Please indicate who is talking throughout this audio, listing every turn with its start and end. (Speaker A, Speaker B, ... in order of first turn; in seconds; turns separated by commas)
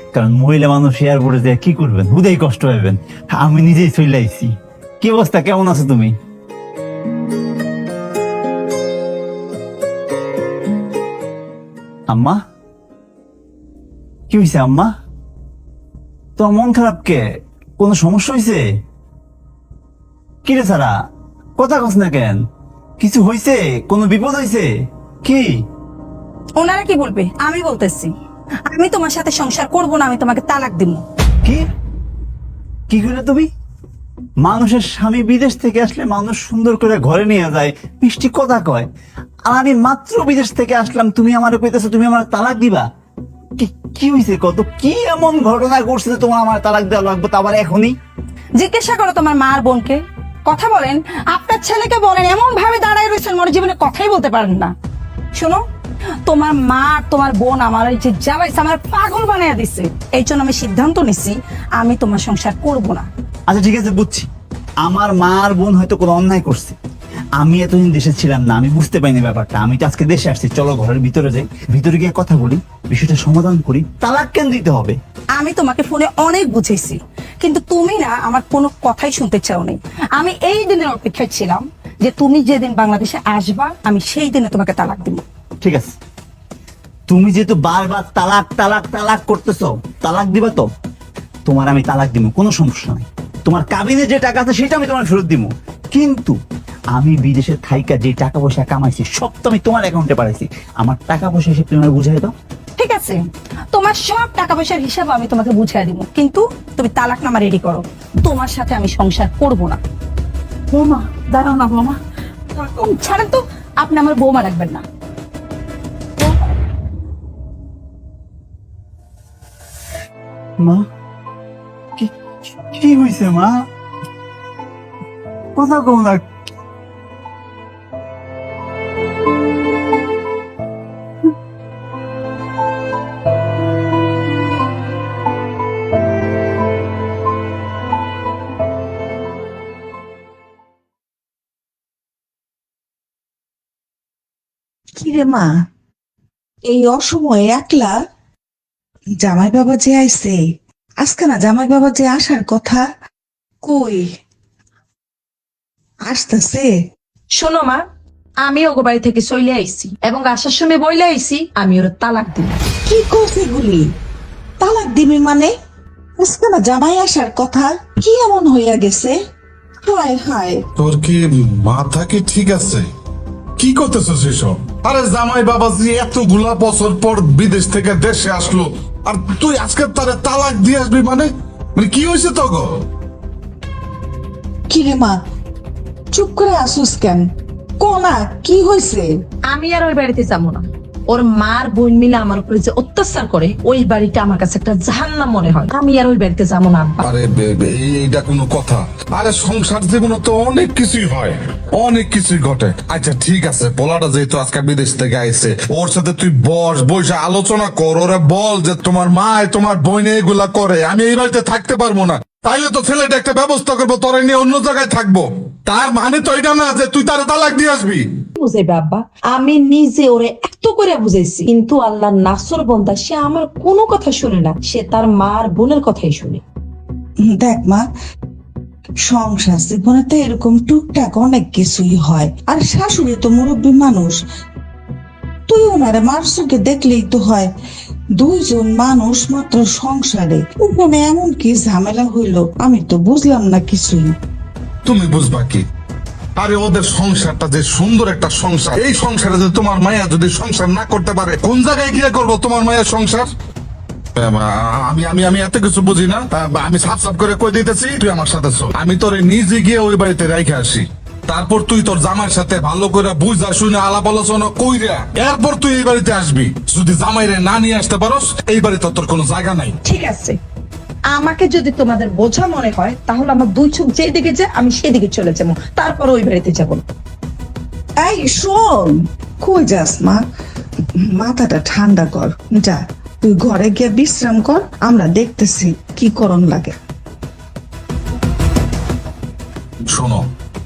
Speaker A: 0.1-6.1, Speaker A: 12.1-12.4, Speaker A: 14.3-14.9, Speaker A: 16.4-17.2, Speaker A: 17.8-18.6, Speaker A: 20.4-20.9, Speaker A: 21.6-22.4, Speaker A: 23.0-24.7, Speaker A: 25.2-25.5, Speaker B: 26.6-28.1, Speaker B: 28.7-31.0, Speaker A: 32.9-33.5, Speaker A: 34.4-38.9, Speaker A: 39.5-42.9, Speaker A: 43.6-47.9, Speaker B: 48.6-54.7, Speaker B: 55.4-55.6, Speaker B: 56.3-63.1, Speaker A: 63.5-64.3, Speaker A: 64.8-66.8, Speaker A: 67.4-75.0, Speaker B: 75.4-85.2, Speaker A: 85.6-85.9, Speaker A: 87.1-90.7, Speaker A: 91.5-96.4, Speaker A: 97.0-102.3, Speaker B: 102.8-103.2, Speaker B: 103.7-109.8, Speaker B: 110.7-112.0, Speaker B: 112.5-114.8, Speaker A: 122.0-123.6, Speaker A: 125.6-126.2, Speaker C: 145.0-145.5, Speaker C: 146.7-148.0, Speaker C: 149.2-150.4, Speaker C: 151.0-152.8, Speaker C: 153.6-154.1, Speaker C: 156.1-156.7, Speaker D: 157.3-157.8, Speaker D: 158.4-162.5, Speaker C: 162.9-163.9, Speaker C: 164.6-165.5, Speaker C: 166.2-169.2, Speaker C: 169.8-170.6, Speaker E: 170.8-172.9, Speaker E: 173.6-182.7, Speaker C: 184.7-185.2, Speaker C: 186.1-187.2, Speaker C: 187.8-189.1, Speaker D: 189.5-197.0, Speaker E: 197.0-218.1, Speaker D: 218.4-226.4, Speaker C: 227.2-227.8, Speaker C: 229.1-234.2, Speaker C: 235.5-237.5, Speaker C: 238.2-244.1, Speaker E: 244.8-245.7, Speaker E: 246.4-253.3, Speaker E: 254.2-269.8, Speaker B: 269.9-270.4, Speaker B: 271.1-276.9, Speaker D: 272.1-272.7, Speaker D: 275.7-276.6, Speaker C: 278.0-280.2, Speaker C: 281.2-286.7, Speaker E: 289.9-290.2